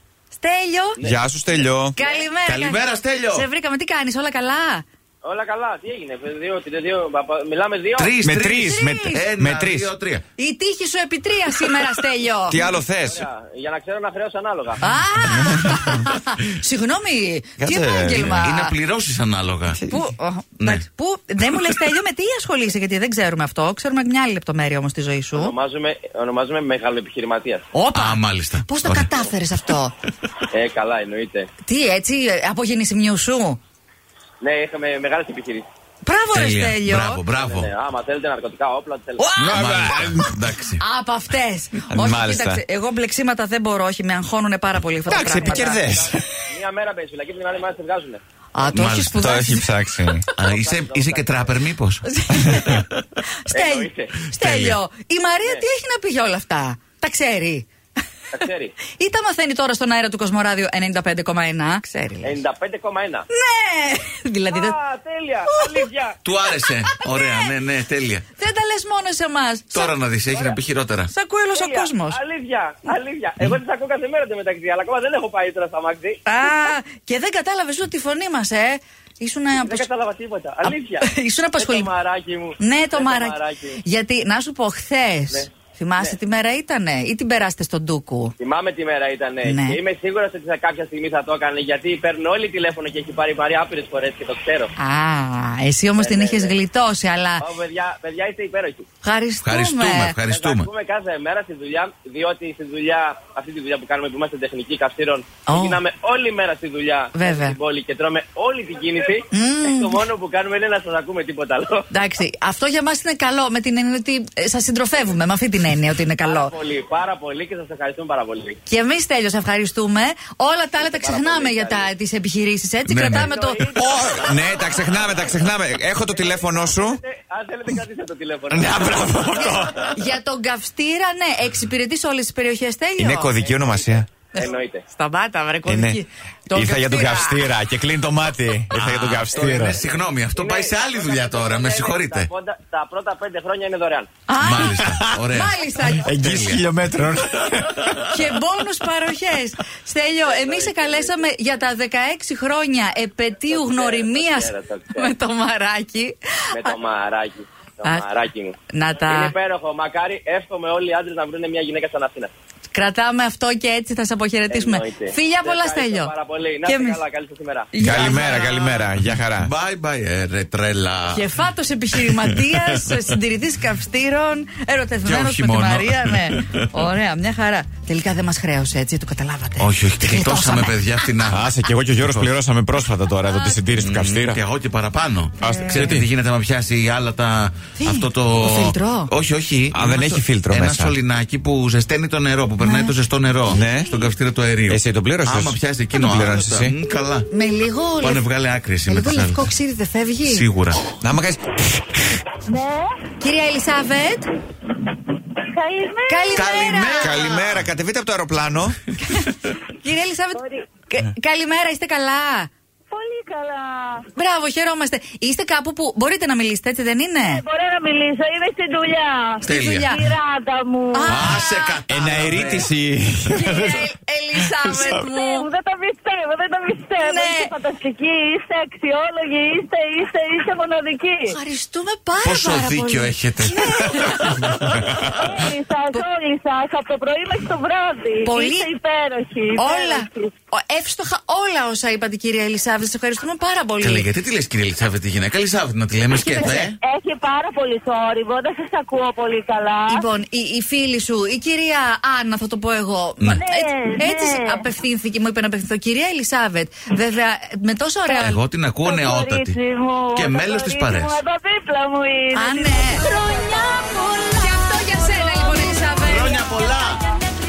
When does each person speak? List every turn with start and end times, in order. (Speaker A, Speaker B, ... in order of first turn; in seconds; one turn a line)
Speaker A: 0.3-1.0
Speaker B: 1.0-1.9
Speaker A: 1.9-4.8
Speaker C: 2.4-3.5
Speaker D: 5.2-8.1
Speaker C: 8.0-10.2
Speaker B: 8.2-9.9
Speaker A: 8.6-9.2
Speaker A: 10.4-12.6
Speaker B: 12.5-13.2
Speaker D: 12.8-14.9
Speaker A: 14.8-18.7
Speaker B: 15.2-16.0
Speaker B: 17.6-18.5
Speaker C: 18.1-19.8
Speaker B: 19.7-20.0
Speaker A: 19.9-25.5
Speaker C: 20.6-20.8
Speaker C: 21.5-21.8
Speaker D: 25.4-27.6
Speaker A: 27.7-29.9
Speaker C: 27.9-29.1
Speaker D: 30.5-31.5
Speaker A: 31.6-33.6
Speaker D: 34.4-35.7
Speaker A: 36.0-37.2
Speaker C: 36.3-37.7
Speaker D: 37.3-39.3
Speaker A: 39.2-45.8
Speaker B: 39.4-40.3
Speaker C: 39.4-40.8
Speaker B: 41.9-42.6
Speaker B: 45.0-46.3
Speaker D: 45.1-48.2
Speaker A: 48.5-49.7
Speaker C: 48.7-49.3
Speaker B: 49.1-50.2
Speaker C: 50.4-52.8
Speaker D: 50.4-51.5
Speaker A: 52.0-52.8
Speaker A: 53.4-57.7
Speaker D: 53.5-54.1
Speaker C: 54.3-54.8
Speaker D: 58.3-58.8
Speaker A: 58.9-62.4
Speaker D: 62.2-63.2
Speaker A: 63.3-64.8
Speaker D: 64.5-66.2
Speaker A: 65.5-65.9
Speaker C: 66.2-68.2
Speaker A: 66.5-67.5
Speaker A: 68.4-69.9
Speaker C: 69.7-71.1
Speaker D: 70.3-70.6
Speaker A: 71.1-72.2
Speaker D: 71.5-76.2
Speaker A: 76.2-79.8
Speaker D: 79.6-83.8
Speaker A: 80.6-81.9
Speaker A: 82.6-88.3
Speaker D: 85.3-86.2
Speaker D: 88.4-94.7
Speaker A: 89.4-89.8
Speaker A: 94.8-97.5
Speaker D: 96.0-96.5
Speaker D: 97.4-98.9
Speaker A: 99.0-100.2
Speaker C: 99.4-100.7
Speaker D: 100.3-111.9
Speaker A: 105.5-105.8
Speaker A: 107.1-107.5
Speaker A: 109.3-110.0
Speaker A: 111.9-116.5
Speaker D: 116.2-118.6
Speaker A: 118.7-123.7
Speaker D: 120.8-121.9
Speaker C: 122.9-123.3
Speaker D: 123.1-125.1
Speaker B: 123.8-127.0
Speaker D: 126.1-129.6
Speaker B: 128.5-129.8
Speaker A: 129.9-133.3
Speaker B: 133.0-134.1
Speaker D: 134.3-134.8
Speaker A: 134.3-137.5
Speaker B: 135.7-136.0
Speaker B: 136.5-139.8
Speaker C: 138.7-142.3
Speaker D: 139.3-144.1
Speaker A: 144.3-146.1
Speaker C: 144.4-146.6
Speaker B: 144.6-145.2
Speaker B: 146.0-148.0
Speaker A: 148.1-156.7
Speaker D: 150.2-151.2
Speaker D: 153.5-155.1
Speaker D: 156.5-162.3
Speaker A: 158.7-159.3
Speaker A: 162.7-166.1
Speaker D: 164.5-167.7
Speaker A: 166.6-167.0
Speaker A: 167.7-168.9
Speaker B: 167.8-169.5
Speaker C: 169.4-171.2
Speaker A: 171.1-181.2
Speaker C: 171.9-172.9
Speaker C: 175.0-176.7
Speaker C: 179.6-182.3
Speaker B: 181.3-184.4
Speaker A: 183.2-183.6
Speaker C: 183.7-197.3
Speaker B: 185.4-186.1
Speaker A: 185.4-185.9
Speaker A: 187.8-189.1
Speaker B: 189.7-191.0
Speaker A: 192.6-192.9
Speaker A: 193.5-194.1
Speaker B: 193.5-193.9
Speaker B: 194.7-196.7
Speaker A: 197.3-198.2
Speaker C: 198.0-199.5
Speaker A: 198.9-200.5
Speaker C: 200.2-200.9
Speaker B: 201.0-202.1
Speaker E: 202.4-202.9
Speaker A: 203.2-204.3
Speaker E: 205.5-206.2
Speaker A: 206.1-207.4
Speaker C: 206.3-207.6
Speaker B: 207.0-208.8
Speaker A: 209.0-212.5
Speaker E: 210.3-210.7
Speaker E: 212.9-214.1
Speaker A: 214.1-217.4
Speaker E: 217.2-221.2
Speaker A: 219.4-220.0
Speaker C: 219.4-220.0
Speaker A: 220.9-221.8
Speaker C: 221.1-222.7
Speaker B: 221.9-223.8
Speaker A: 223.3-225.5
Speaker E: 224.9-231.4
Speaker A: 227.0-227.5
Speaker A: 231.3-234.9
Speaker C: 232.2-233.6
Speaker C: 234.7-235.3
Speaker E: 235.2-240.3
Speaker A: 238.2-238.7
Speaker A: 239.6-244.1
Speaker C: 243.8-246.8
Speaker E: 246.3-250.0
Speaker A: 249.9-258.4
Speaker E: 253.3-254.6
Speaker C: 258.2-259.6
Speaker E: 258.8-266.8
Speaker C: 260.1-261.2
Speaker A: 262.3-263.0
Speaker D: 263.0-263.3
Speaker A: 264.2-266.4
Speaker C: 266.0-267.1